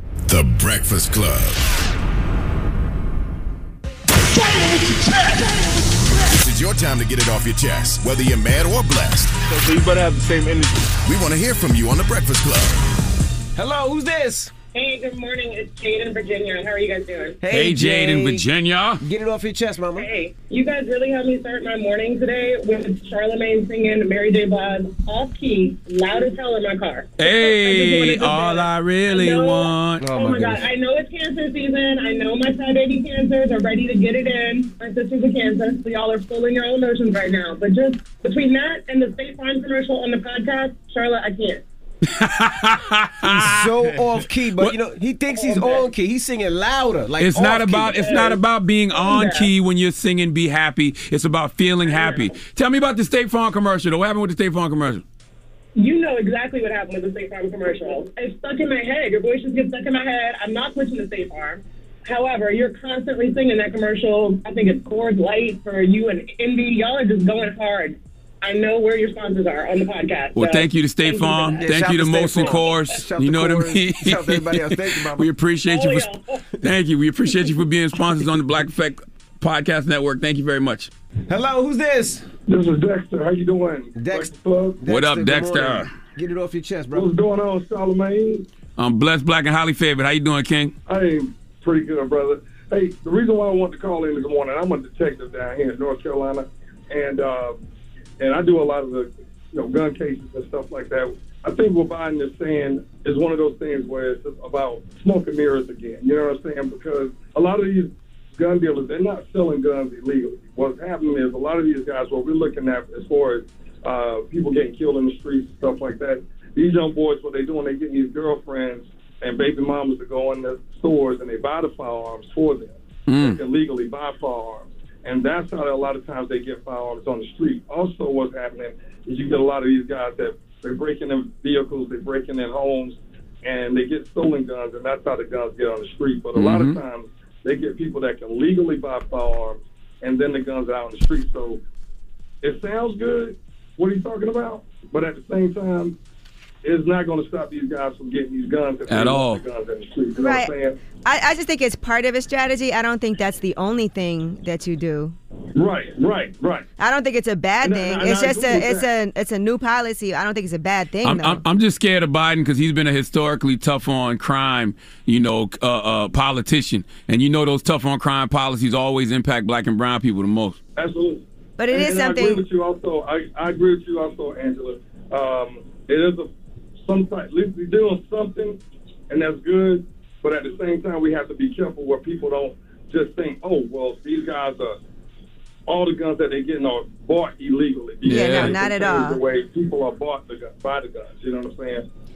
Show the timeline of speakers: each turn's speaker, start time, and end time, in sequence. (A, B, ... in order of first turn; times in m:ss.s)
0:00.3-0:01.6 A
0:04.4-0:05.7 B
0:06.2-0:09.5 A
0:10.9-0:12.8 A
0:13.6-0:14.5 B
0:14.7-0:17.4 C
0:17.4-0:18.5 B
0:17.5-0:19.0 D
0:19.0-0:20.1 B
0:20.0-0:41.6 C
0:27.2-0:30.1 D
0:30.0-0:30.7 B
0:42.0-0:43.7 D
0:43.2-0:48.0 B
0:45.3-0:45.8 C
0:47.2-0:55.0 D
0:47.8-0:49.5 C
0:51.9-0:52.2 C
0:55.7-1:11.7 C
1:10.3-1:16.1 D
1:11.6-1:15.3 B
1:12.3-1:12.8 C
1:15.6-1:16.4 C
1:16.6-1:20.9 D
1:21.3-1:22.2 B
1:22.5-1:24.8 E
1:24.0-1:27.1 B
1:24.8-1:25.9 D
1:26.9-1:28.4 E
1:28.8-1:30.7 D
1:30.8-1:37.6 E
1:38.2-2:21.6 E
2:03.1-2:03.4 D
2:16.3-2:16.8 D
2:22.4-2:26.0 E
2:26.6-2:30.8 E
2:28.9-2:29.4 D
2:30.1-2:35.2 F
2:35.5-2:36.6 E
2:36.8-2:41.4 F
2:37.6-2:38.8 E
2:41.0-2:50.6 D
2:50.8-2:56.3 E
2:51.6-2:52.5 F
2:56.8-3:04.8 E
3:05.7-3:11.9 E
3:08.0-3:08.6 D
3:08.0-3:09.2 F